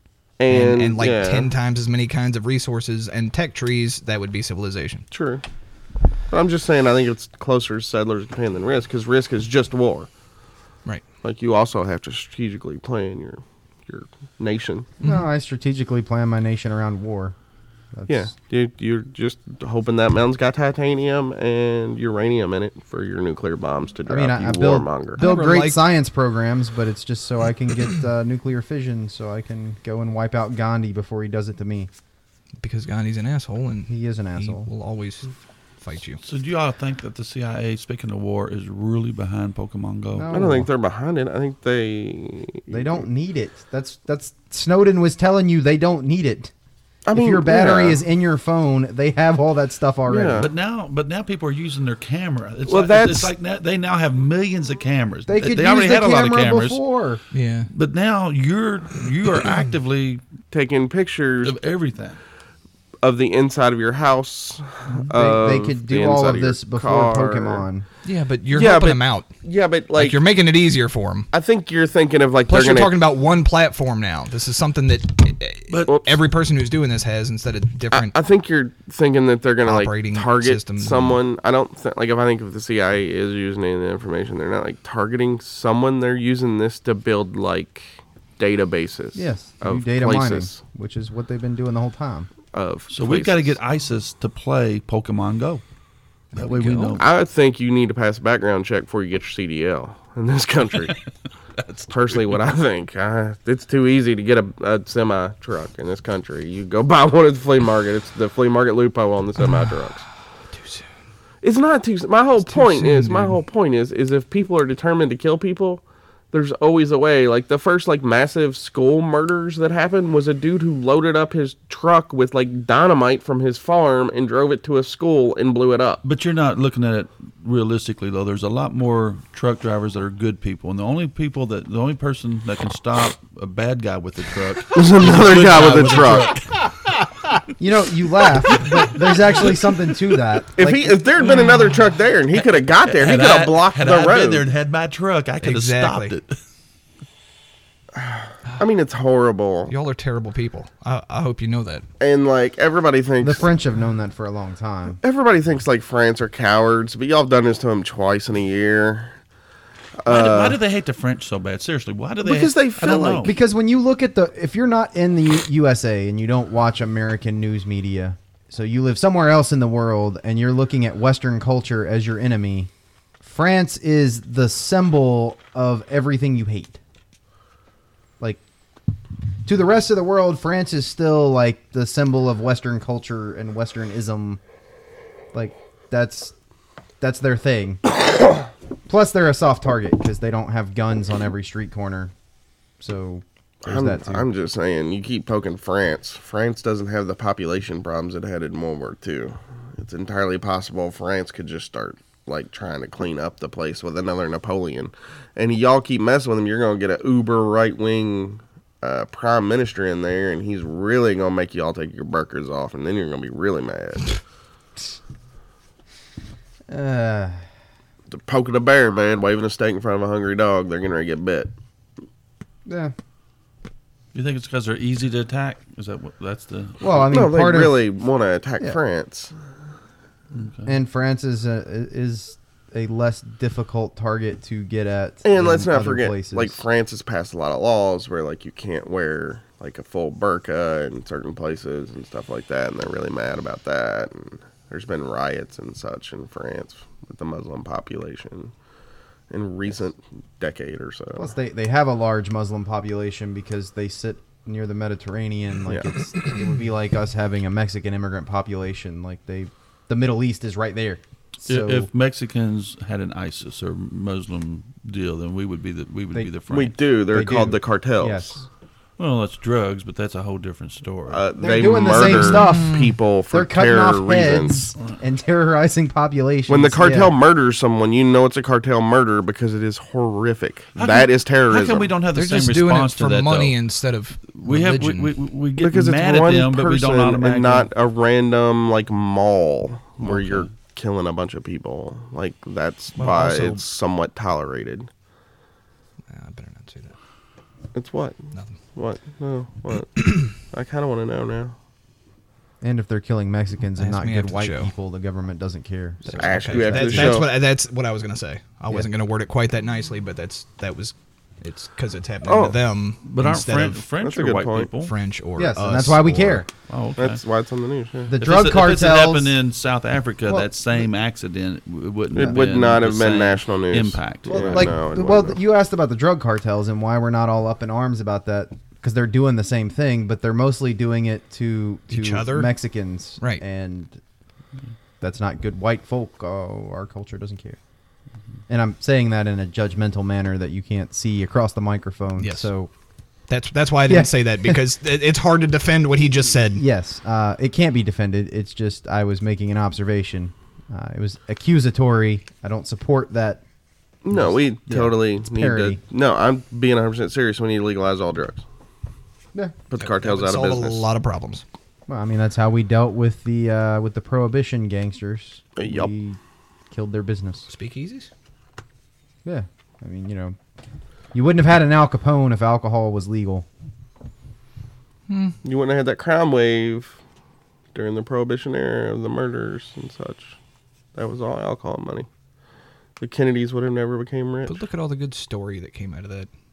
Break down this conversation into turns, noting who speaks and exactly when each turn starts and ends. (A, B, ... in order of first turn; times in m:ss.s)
0:00.4-0:01.5 A
0:00.5-0:05.0 B
0:05.1-0:05.4 A
0:06.3-0:10.1 A
0:11.2-0:14.9 A
0:15.0-0:15.3 B
0:15.0-0:17.3 C
0:17.9-0:18.3 C
0:18.1-0:25.2 A
0:24.1-0:31.9 C
0:25.2-0:25.8 B
0:32.6-0:36.2 B
0:33.9-0:34.7 C
0:36.2-0:40.4 D
0:40.1-0:40.7 C
0:40.3-0:43.0 A
0:42.7-0:46.5 C
0:47.0-0:48.0 A
0:47.1-0:50.5 C
0:50.1-0:50.5 A
0:50.4-0:56.8 D
0:52.7-0:53.3 A
0:55.3-0:57.2 C
0:57.3-0:57.7 B
0:57.7-1:00.2 D
1:00.5-1:01.6 A
1:01.4-1:02.2 D
1:03.0-1:07.6 A
1:05.1-1:07.8 C
1:08.0-1:09.3 B
1:08.5-1:10.2 A
1:10.0-1:11.3 B
1:11.3-1:13.0 A
1:12.5-1:18.1 B
1:15.7-1:16.0 D
1:17.9-1:30.6 A
1:19.6-1:21.2 B
1:29.1-1:32.3 C
1:32.5-1:33.6 A
1:32.9-1:35.6 D
1:36.3-1:37.0 B
1:36.3-1:37.0 D
1:37.0-1:41.0 A
1:41.6-1:42.3 D
1:41.9-1:50.0 A
1:49.4-1:50.0 B
1:50.5-1:50.8 B
1:51.4-2:06.0 A
1:52.4-1:53.4 B
2:06.0-2:16.6 D
2:14.7-2:16.4 A
2:17.6-2:21.1 C
2:20.6-2:24.5 A
2:22.3-2:26.4 D
2:25.4-2:26.1 B
2:28.0-2:29.7 A
2:29.7-2:31.8 B
2:32.0-2:33.5 A
2:33.2-2:35.0 C
2:35.0-2:39.1 A
2:40.0-2:40.6 A
2:40.1-2:43.3 D
2:42.2-2:43.3 A
2:43.2-2:56.8 C
2:59.4-3:04.4 C
3:05.3-3:06.3 C
3:07.0-3:07.8 C
3:08.9-3:12.1 C
3:12.8-3:14.2 C
3:13.6-3:34.2 A
3:36.7-3:37.4 C
3:38.1-3:41.5 A
3:42.6-3:42.9 C
3:44.1-3:46.9 D
3:46.8-3:47.8 C
3:47.1-3:49.3 A
3:50.3-3:50.7 D
3:50.6-3:56.6 C
3:55.2-4:08.5 A
4:09.3-4:11.3 A
4:11.2-4:21.9 C
4:21.4-4:26.7 D
4:26.5-4:28.4 A
4:27.1-4:28.4 C
4:29.0-4:31.2 D
4:31.1-4:34.6 A
4:31.4-4:32.7 C
4:32.0-4:33.0 B
4:33.3-4:37.1 C
4:36.5-4:41.9 A
4:40.8-4:43.6 D
4:42.1-4:45.1 B
4:44.3-4:47.7 D
4:45.6-4:54.9 A
4:50.0-4:50.5 D
4:53.0-4:53.6 B
4:56.1-4:56.9 B
4:57.7-4:58.2 A
4:58.7-5:01.5 A
5:00.0-5:00.3 B
5:02.6-5:07.3 C
5:03.8-5:04.7 B
5:06.0-5:13.8 B
5:06.1-5:07.3 A
5:12.2-5:12.6 A
5:13.0-5:14.9 D
5:14.0-5:14.7 A
5:14.8-5:16.4 B
5:15.4-5:16.5 C
5:16.7-5:17.2 D
5:17.0-5:18.1 A
5:18.1-5:19.4 C
5:18.2-5:24.7 D
5:22.1-5:25.4 A
5:22.2-5:22.4 C
5:24.3-5:34.0 C
5:31.9-5:32.5 B
5:35.0-5:37.6 C
5:38.5-5:42.7 C
5:42.2-5:42.5 B
5:43.3-5:46.6 B
5:43.9-5:44.6 C
5:46.5-5:53.4 C
5:54.0-5:58.4 A
5:54.1-5:55.8 C
5:59.7-6:00.8 A
5:59.8-6:01.4 B
6:01.9-6:06.2 C
6:05.6-6:05.9 A
6:06.7-6:07.5 C
6:07.5-6:08.1 B
6:09.2-6:10.4 C
6:11.1-6:13.5 C
6:15.1-6:15.4 B
6:15.4-6:17.0 A
6:17.7-6:20.4 A
6:20.9-6:22.1 A
6:23.0-6:24.6 A
6:24.4-6:26.3 B